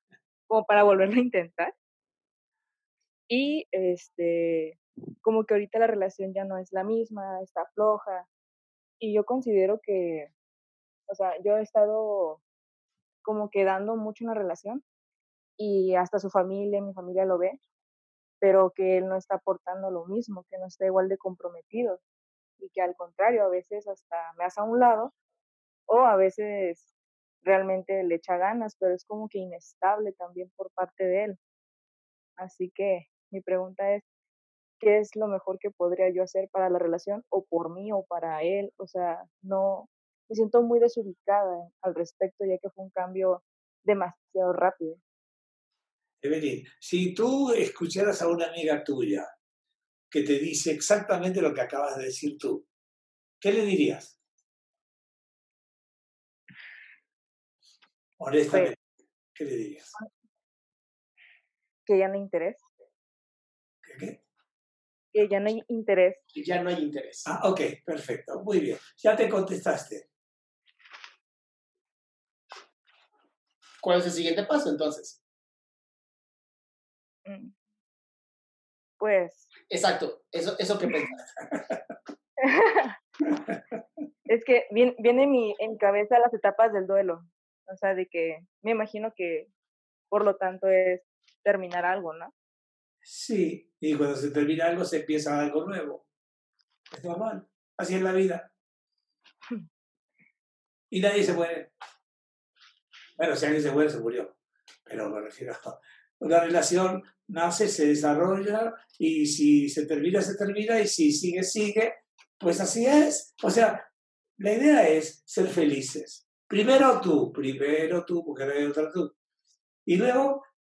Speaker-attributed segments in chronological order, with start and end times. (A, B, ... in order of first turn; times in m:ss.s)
0:00.5-0:01.7 A
0:03.3-0:08.3 A
0:09.0-0:10.3 A
0:11.1-0:12.4 A
0:13.2-0:14.8 A
0:15.6-0:17.6 A
0:18.4-0:22.0 A
0:22.6-0:25.1 A
0:25.9-0:26.9 A
0:27.4-0:31.4 A
0:32.4-0:34.0 A
0:34.8-0:45.0 A
0:46.2-0:49.3 B
0:50.1-0:52.7 B
0:53.4-0:54.2 B
0:58.2-0:58.8 B
0:58.5-0:58.8 A
0:59.4-0:59.9 B
1:01.9-1:02.7 A
1:03.8-1:04.2 B
1:05.1-1:06.2 A
1:06.3-1:07.3 C
1:07.3-1:10.1 B
1:13.8-1:15.2 C
1:17.3-1:17.5 A
1:19.0-1:19.5 A
1:19.7-1:21.3 C
1:22.5-1:22.9 A
1:24.3-1:29.5 A
1:30.1-1:32.3 A
1:33.1-1:36.0 B
1:36.9-1:38.5 B
1:40.9-1:41.7 B
1:43.2-1:53.9 B
1:54.4-1:59.2 B
1:59.9-2:00.4 B